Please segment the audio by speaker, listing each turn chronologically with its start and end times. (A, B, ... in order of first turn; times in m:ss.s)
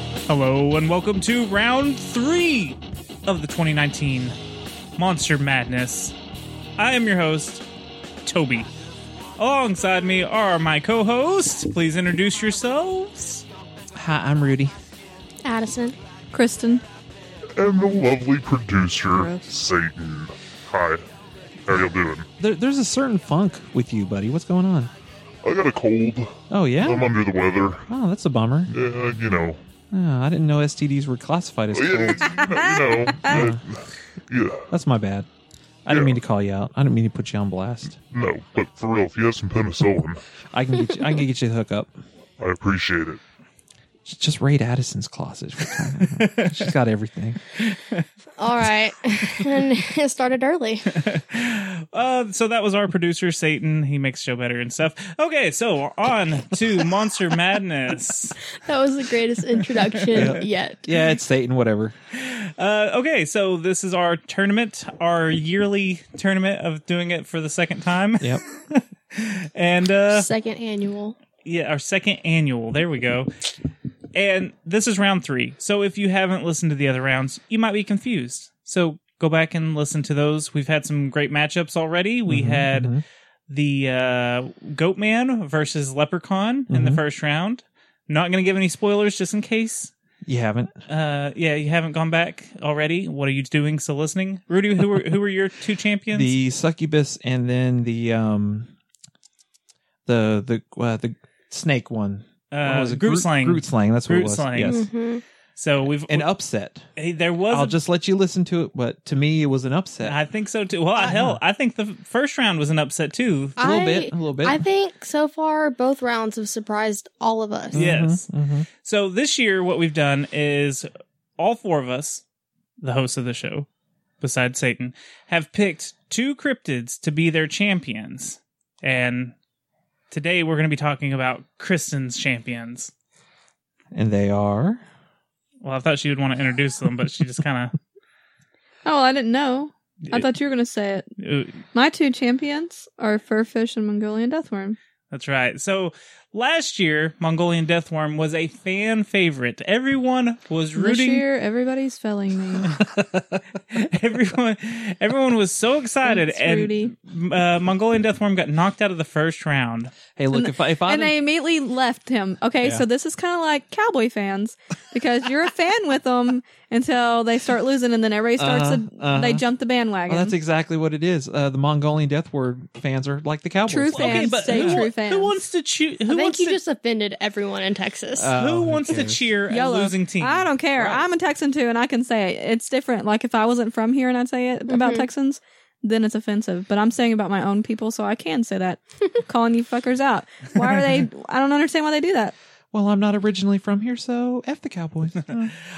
0:00.3-0:04.4 A
0:05.0-0:06.2 A
0:06.8-0:07.6 A
0:08.2-0:08.7 A
0:09.4-0:13.4 A
0:14.0-0:14.7 B
0:15.4-0:16.0 C
0:16.3-0:16.8 D
0:17.6-0:21.0 E
0:19.1-0:19.5 D
0:21.6-0:22.3 E
0:22.4-0:24.9 B
0:25.4-0:27.9 E
0:26.5-0:27.1 B
0:27.9-0:28.7 B
0:28.7-0:29.6 E
0:29.9-0:33.6 B
0:31.7-0:34.6 E
0:34.7-0:35.3 B
0:35.9-0:38.0 B
0:35.9-0:36.2 E
0:38.1-0:40.2 E
0:40.5-0:42.0 B
0:42.4-0:43.2 E
0:44.0-0:47.4 B
0:46.1-0:46.7 A
0:47.6-0:48.1 A
0:48.4-0:51.0 C
0:51.0-0:58.4 A
0:58.6-1:00.8 C
1:00.0-1:00.4 A
1:00.1-1:02.0 B
1:02.1-1:10.3 A
1:10.1-1:11.2 C
1:11.4-1:13.3 A
1:14.2-1:22.9 A
1:22.3-1:23.0 B
1:23.5-1:29.9 A
1:26.7-1:27.0 B
1:30.3-1:30.7 B
1:30.9-1:36.3 A
1:36.1-1:38.7 B
1:40.1-1:44.8 B
1:42.5-1:44.8 A
1:44.7-1:45.2 C
1:45.6-1:46.3 A
1:46.1-1:46.9 B
1:47.0-1:47.8 A
1:47.5-1:50.2 B
1:50.0-1:53.6 A
1:51.0-1:51.4 B
1:53.6-1:54.6 B
1:53.6-1:57.8 C
1:57.7-1:58.3 A
1:57.7-1:58.7 B
1:58.8-2:02.2 A
2:02.8-2:03.7 A
2:04.2-2:09.4 A
2:10.1-2:12.9 A
2:13.9-2:14.8 B
2:15.6-2:17.8 A
2:18.8-2:21.1 D
2:21.2-2:21.6 A
2:21.7-2:24.8 D
2:25.1-2:31.2 A
2:30.8-2:32.7 D
2:32.7-2:33.4 B
2:33.7-2:40.0 A
2:36.1-2:36.9 D
2:40.2-2:41.2 B
2:40.3-2:50.4 D
2:48.4-2:49.4 B
2:50.1-2:54.9 B
2:53.7-2:55.4 D
2:53.9-2:56.6 A
2:56.1-2:58.3 C
2:58.1-2:59.3 B
2:58.4-3:00.5 A
2:59.5-3:12.4 D
3:00.7-3:01.1 B
3:04.7-3:05.1 C
3:12.7-3:15.6 B